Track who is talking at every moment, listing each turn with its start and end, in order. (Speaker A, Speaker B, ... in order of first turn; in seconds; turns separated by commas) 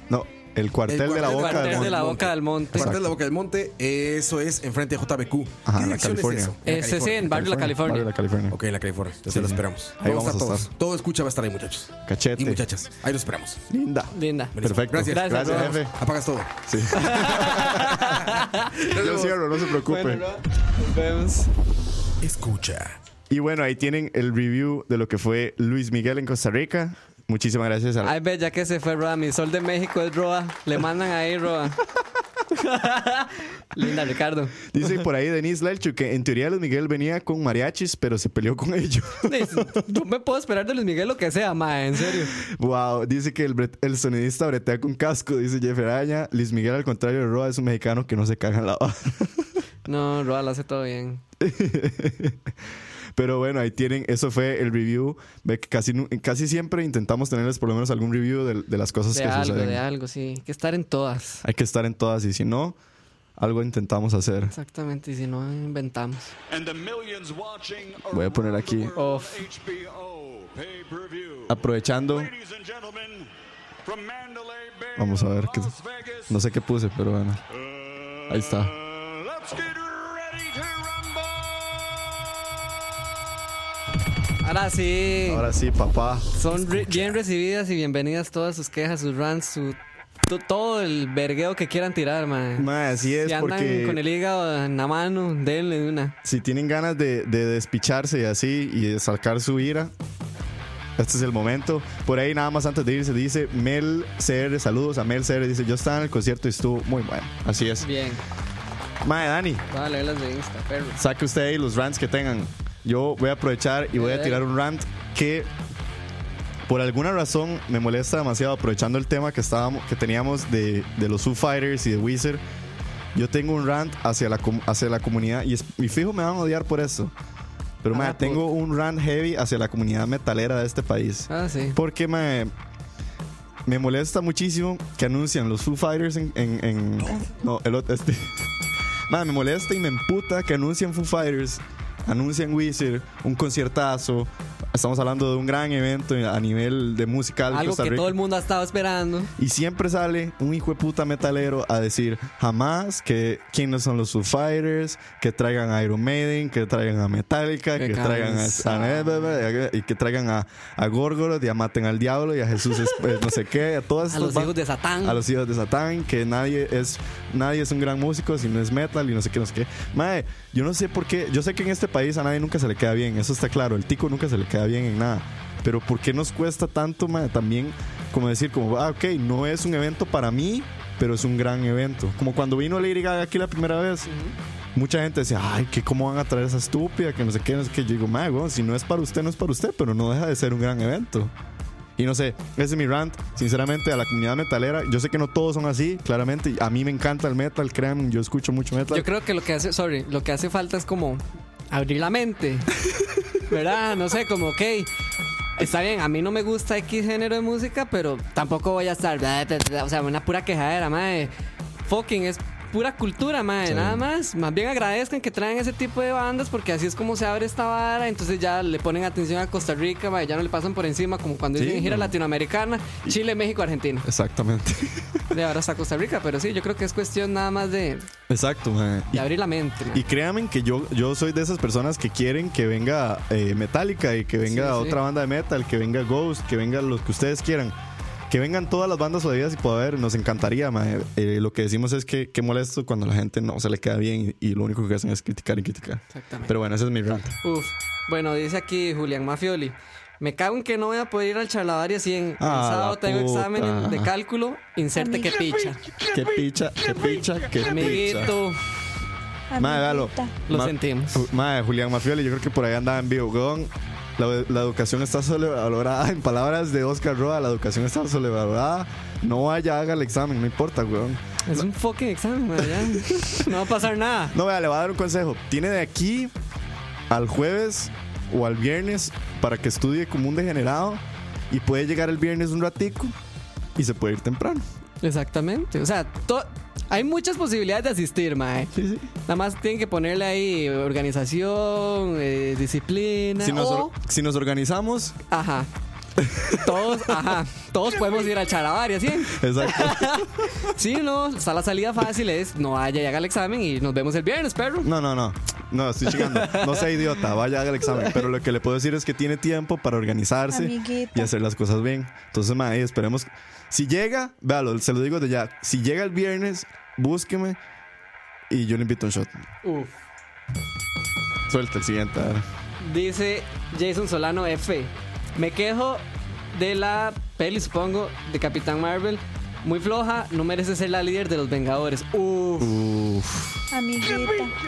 Speaker A: 0.1-2.0, Speaker B: 0.9-7.3, Speaker C: 1.1-2.9, Speaker A: 2.7-3.1, Speaker A: 5.6-6.5, Speaker C: 6.7-8.1, Speaker A: 7.2-8.6, Speaker B: 8.5-13.6, Speaker A: 9.3-10.7, Speaker A: 12.1-12.6, Speaker A: 13.7-16.0, Speaker C: 14.1-14.5, Speaker B: 14.6-17.1, Speaker C: 15.1-15.8, Speaker A: 16.6-18.2, Speaker C: 16.9-21.5, Speaker B: 18.0-18.3, Speaker B: 18.9-19.4, Speaker A: 18.9-20.2, Speaker B: 22.2-23.0, Speaker A: 23.3-28.1, Speaker C: 28.0-31.8, Speaker C: 32.5-34.7, Speaker A: 34.6-39.7, Speaker C: 39.3-42.3, Speaker A: 42.4-49.6, Speaker C: 49.9-51.2, Speaker A: 51.4-52.5, Speaker A: 53.1-59.8, Speaker C: 59.1-61.4, Speaker A: 61.4-62.8, Speaker A: 63.4-64.5, Speaker C: 64.5-66.3, Speaker D: 66.5-73.3, Speaker A: 68.1-68.9, Speaker C: 69.0-69.5, Speaker A: 71.5-72.3, Speaker D: 73.8-76.4, Speaker A: 75.0-75.7, Speaker A: 76.3-77.4, Speaker D: 77.5-82.3, Speaker A: 78.3-78.7, Speaker C: 84.4-85.5, Speaker A: 85.2-87.2, Speaker C: 86.3-92.7, Speaker A: 92.6-94.0, Speaker C: 93.2-96.1, Speaker A: 96.2-99.9, Speaker A: 101.0-107.9, Speaker C: 107.8-108.2, Speaker A: 109.0-109.7, Speaker C: 109.7-111.0, Speaker A: 111.0-115.5, Speaker C: 114.0-114.4, Speaker A: 116.7-122.4, Speaker A: 123.1-127.1, Speaker A: 127.8-132.5, Speaker C: 127.9-128.4, Speaker C: 131.3-131.8, Speaker A: 133.7-138.5, Speaker A: 139.1-148.1, Speaker C: 147.5-149.3, Speaker A: 149.4-184.1, Speaker C: 157.8-159.4, Speaker C: 164.1-165.2, Speaker C: 184.1-184.3, Speaker A: 184.7-191.3, Speaker A: 192.0-199.1, Speaker C: 198.9-202.7, Speaker C: 203.5-204.9, Speaker C: 205.6-211.3, Speaker C: 211.8-224.1, Speaker A: 213.7-214.0, Speaker A: 221.6-222.1, Speaker A: 224.0-225.2, Speaker C: 225.3-228.1, Speaker A: 228.3-229.3, Speaker C: 229.1-230.0, Speaker A: 229.9-237.7, Speaker C: 234.4-235.0, Speaker A: 238.3-247.4, Speaker C: 246.1-246.5, Speaker C: 247.4-255.8, Speaker A: 252.4-254.1, Speaker E: 255.0-255.5, Speaker A: 256.1-258.4, Speaker C: 257.6-258.8, Speaker E: 259.5-260.4, Speaker A: 259.6-271.7, Speaker C: 260.5-261.3, Speaker C: 271.4-274.4, Speaker A: 272.6-273.5, Speaker A: 274.3-276.3, Speaker A: 277.1-283.1, Speaker A: 283.8-284.6, Speaker C: 285.0-293.9, Speaker A: 288.7-289.1, Speaker A: 293.4-295.2, Speaker C: 295.3-295.7, Speaker A: 296.2-297.1, Speaker C: 296.5-304.9, Speaker A: 299.2-300.7, Speaker A: 304.8-317.6, Speaker C: 306.1-307.1, Speaker C: 307.9-308.3, Speaker E: 310.5-311.3, Speaker A: 318.5-319.3, Speaker C: 319.6-319.9, Speaker A: 321.5-322.4, Speaker C: 322.8-332.8, Speaker A: 332.6-333.6, Speaker E: 333.7-334.5